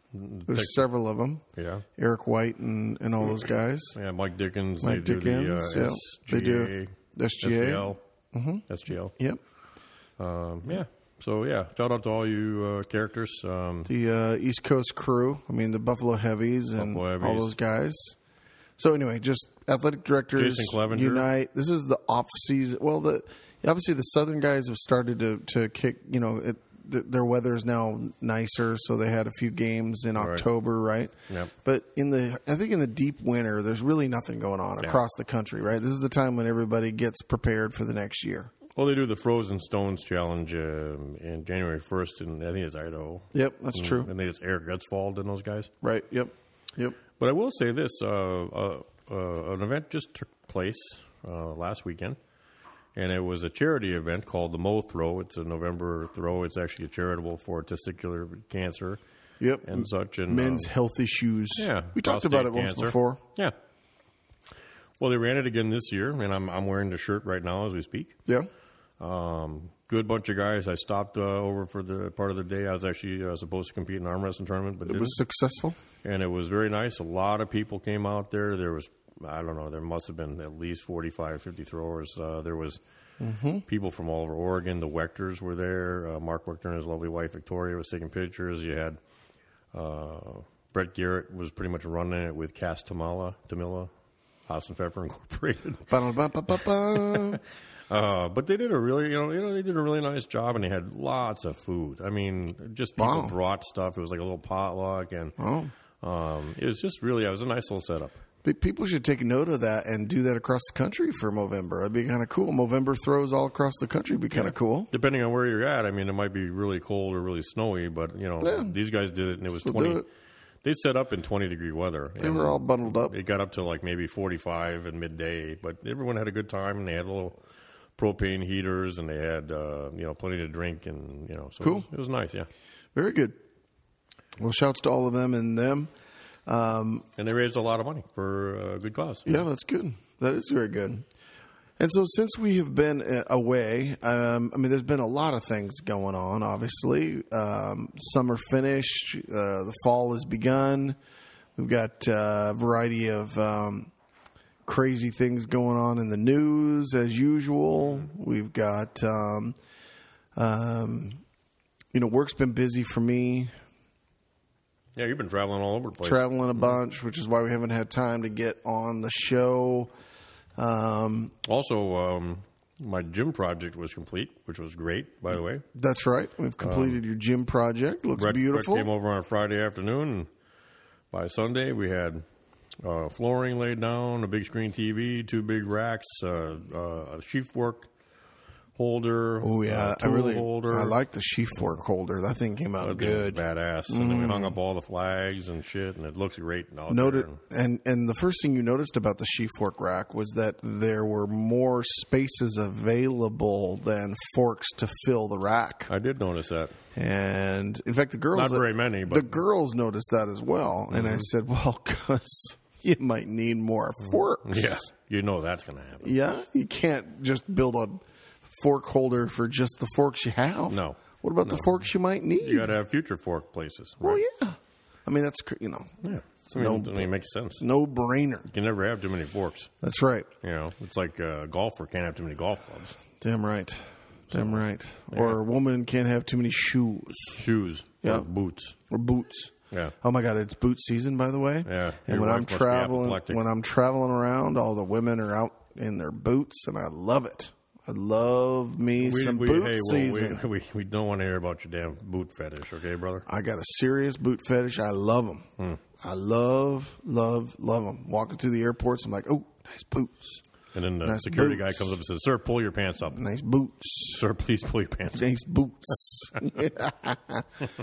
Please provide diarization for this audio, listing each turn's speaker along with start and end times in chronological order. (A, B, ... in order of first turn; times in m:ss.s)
0:00.1-0:00.8 A
0:00.5-0:01.4 B
0:01.6-0:01.8 A
0:02.0-0:04.0 B
0:04.0-0:08.0 A
0:04.8-0:09.4 B
0:08.7-0:09.1 A
0:10.2-0:13.9 A
0:13.8-0:18.2 B
0:16.8-0:17.5 A
0:18.8-0:38.5 B
0:20.4-0:21.3 A
0:30.2-0:30.5 A
0:38.8-0:45.7 A
0:43.3-0:44.1 B
0:45.8-0:47.0 B
0:47.2-0:52.2 A
0:53.0-0:59.0 A
0:59.4-1:03.2 B
0:59.6-1:00.7 A
1:01.6-1:03.6 A
1:05.0-1:08.2 A
1:09.0-1:15.2 A
1:14.9-1:15.8 B
1:16.0-1:22.8 A
1:23.2-1:23.6 B
1:23.7-1:29.0 A
1:29.7-1:33.9 A
1:34.5-1:35.9 A
1:35.9-1:37.4 B
1:36.9-1:45.4 A
1:43.0-1:43.4 B
1:45.4-1:45.7 B
1:46.0-1:48.2 A
1:48.4-1:54.9 B
1:54.3-2:00.0 A
1:58.4-1:58.8 B
1:59.6-2:00.1 B
2:00.6-2:07.4 A
2:02.2-2:03.2 B
2:08.0-2:12.5 A
2:11.6-2:11.9 B
2:13.0-2:13.4 B
2:14.4-2:15.9 B
2:16.5-2:17.1 B
2:17.2-2:19.4 A
2:19.3-2:21.0 B
2:21.8-2:31.0 B
2:31.6-2:33.9 B
2:34.6-2:39.6 B
2:40.4-2:41.2 B
2:41.9-2:43.5 B
2:45.0-2:46.6 A
2:46.0-2:49.9 B
2:50.6-2:51.4 B
2:51.4-2:55.6 A
2:55.7-2:58.9 B
2:56.6-2:57.0 A
2:58.2-3:00.3 A
3:01.1-3:02.2 A
3:02.8-3:07.9 A
3:08.8-3:11.0 A
3:09.4-3:14.6 B
3:12.8-3:17.4 A
3:16.9-3:25.9 B
3:25.9-3:26.8 A
3:27.0-3:34.7 B
3:28.3-3:29.4 A
3:30.9-3:31.3 A
3:34.1-3:36.1 A
3:36.0-3:42.7 B
3:40.7-3:41.8 A
3:42.4-3:44.2 A
3:44.0-3:45.9 B
3:46.0-3:47.7 A
3:46.5-3:48.5 B
3:48.5-3:49.7 A
3:49.8-3:50.3 B
3:50.4-3:53.0 A
3:53.2-3:57.4 B
3:54.3-3:55.4 A
3:57.3-3:58.8 A
3:58.9-4:10.4 B
4:01.6-4:03.4 A
4:09.0-4:13.3 A
4:13.3-4:15.5 B
4:16.0-4:20.4 B
4:20.7-4:23.2 A
4:21.0-4:22.0 B
4:23.1-4:24.2 B
4:24.0-4:25.3 A
4:25.1-4:27.5 B